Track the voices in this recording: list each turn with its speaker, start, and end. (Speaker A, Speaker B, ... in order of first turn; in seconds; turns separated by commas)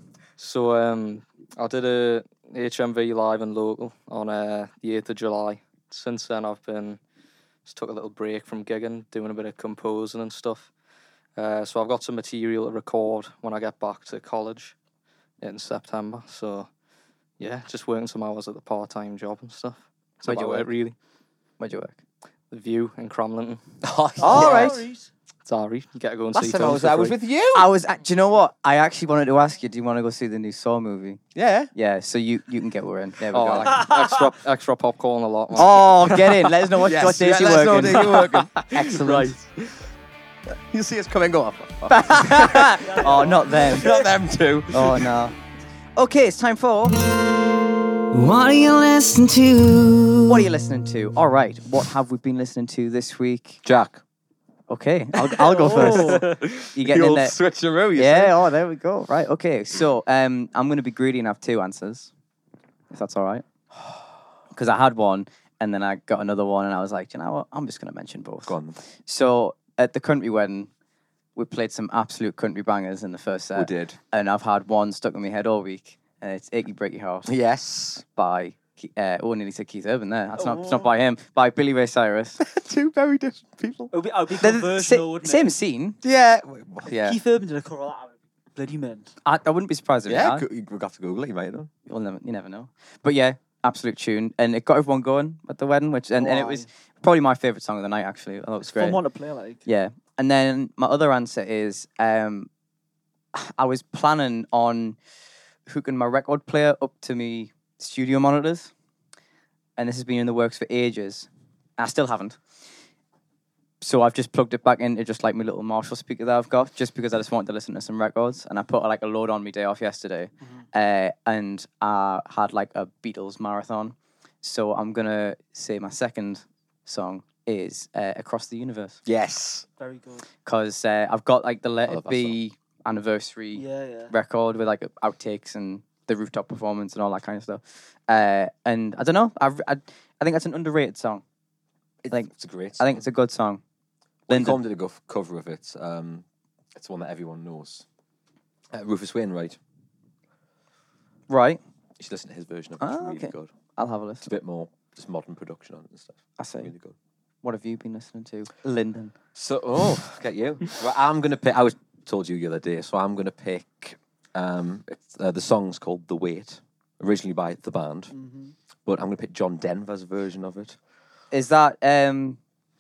Speaker A: 0.4-7.0, Speaker A: 7.7-10.7, Speaker A: 11.4-14.8, Speaker A: 15.4-16.7, Speaker A: 17.4-20.9, Speaker B: 20.2-20.7, Speaker B: 21.6-22.0, Speaker A: 22.5-23.6, Speaker C: 23.8-24.8, Speaker D: 24.2-25.1, Speaker B: 24.2-24.8, Speaker A: 25.5-27.2, Speaker C: 26.3-27.7, Speaker B: 27.5-31.2, Speaker C: 31.4-31.7, Speaker B: 31.7-33.9, Speaker A: 33.3-36.5, Speaker D: 33.8-34.2, Speaker B: 35.5-39.1, Speaker C: 36.8-39.3, Speaker A: 38.0-39.7, Speaker C: 40.5-45.1, Speaker B: 41.9-43.9, Speaker D: 42.8-44.1, Speaker B: 44.7-45.4, Speaker B: 46.0-47.0, Speaker E: 48.1-50.5, Speaker B: 50.3-53.6, Speaker C: 53.6-54.0, Speaker B: 54.7-57.4, Speaker D: 55.4-56.3, Speaker C: 55.6-58.5, Speaker B: 58.0-62.1, Speaker B: 62.9-63.5, Speaker B: 64.5-70.7, Speaker C: 68.5-68.8, Speaker B: 71.4-77.3, Speaker C: 73.5-74.0, Speaker C: 77.3-78.0, Speaker B: 78.2-82.4, Speaker D: 80.4-80.9, Speaker C: 82.4-83.9, Speaker D: 83.9-85.5, Speaker B: 84.4-86.0, Speaker C: 86.0-87.2, Speaker D: 86.9-89.2, Speaker B: 89.2-90.5, Speaker C: 90.1-91.7, Speaker B: 91.9-99.0, Speaker D: 96.2-96.7, Speaker D: 98.7-99.6, Speaker B: 99.7-102.5, Speaker B: 103.3-105.0, Speaker B: 105.7-108.7, Speaker B: 109.8-112.4, Speaker B: 113.8-129.0, Speaker C: 129.1-129.7, Speaker D: 129.8-130.2, Speaker B: 130.4-141.2, Speaker C: 131.9-132.4, Speaker D: 133.5-134.1, Speaker C: 142.0-143.0, Speaker B: 142.1-143.6, Speaker C: 144.3-147.8, Speaker B: 144.3-144.6, Speaker C: 148.7-149.6, Speaker B: 151.3-151.6, Speaker C: 152.0-153.5, Speaker B: 152.8-154.3, Speaker C: 154.2-156.9, Speaker B: 156.4-156.7, Speaker B: 157.4-159.1, Speaker C: 159.3-168.1, Speaker D: 168.1-168.6, Speaker C: 168.8-170.8, Speaker B: 171.3-172.4